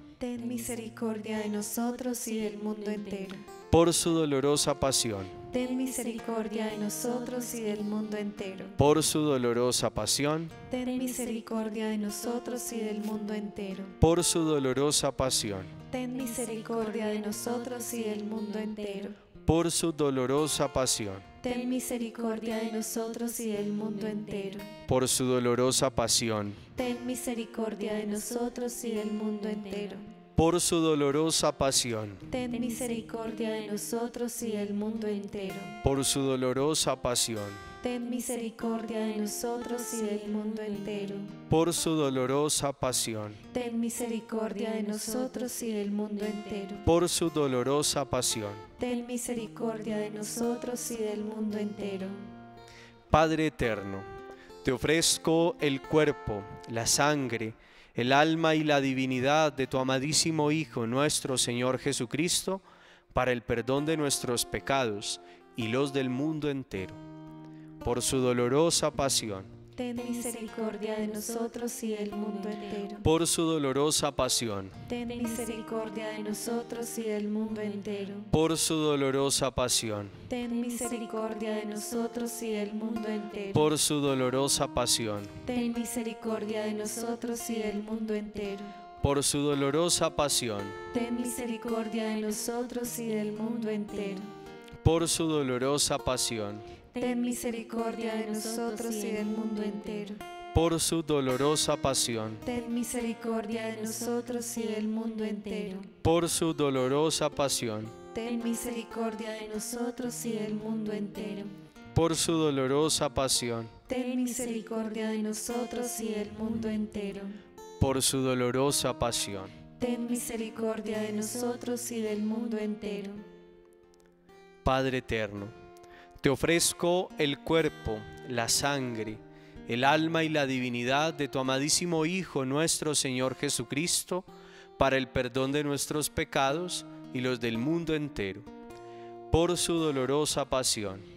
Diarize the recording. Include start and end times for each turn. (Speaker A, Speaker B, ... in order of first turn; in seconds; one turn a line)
Speaker A: 0.2-3.5
Speaker B: 3.7-5.3
Speaker A: 5.5-8.8
Speaker B: 8.8-10.6
Speaker A: 10.7-13.9
Speaker B: 14.0-15.7
Speaker A: 15.9-19.2
Speaker B: 19.4-21.3
Speaker A: 21.4-24.7
Speaker B: 24.9-26.6
Speaker A: 26.7-30.1
Speaker B: 30.4-32.2
Speaker A: 32.3-35.8
Speaker B: 35.8-37.6
Speaker A: 37.8-41.3
Speaker B: 41.5-43.4
Speaker A: 43.5-46.9
Speaker B: 46.8-48.6
Speaker A: 48.8-52.3
Speaker B: 53.1-54.1
Speaker B: 54.6-67.0
Speaker B: 67.8-69.5
Speaker A: 69.8-73.1
Speaker B: 73.0-74.8
Speaker A: 74.9-78.3
Speaker B: 78.3-80.2
Speaker A: 80.3-83.7
Speaker B: 83.5-85.3
Speaker A: 85.5-88.7
Speaker B: 89.0-90.8
Speaker A: 90.9-94.3
Speaker B: 94.8-96.7
Speaker A: 96.9-100.2
Speaker B: 100.5-102.4
Speaker A: 102.4-105.9
Speaker B: 106.0-107.9
Speaker A: 108.1-111.5
Speaker B: 111.9-113.7
Speaker A: 113.9-117.4
Speaker B: 117.8-119.5
Speaker A: 119.8-123.2
Speaker B: 124.6-125.5
Speaker B: 126.2-138.5
Speaker B: 139.3-141.1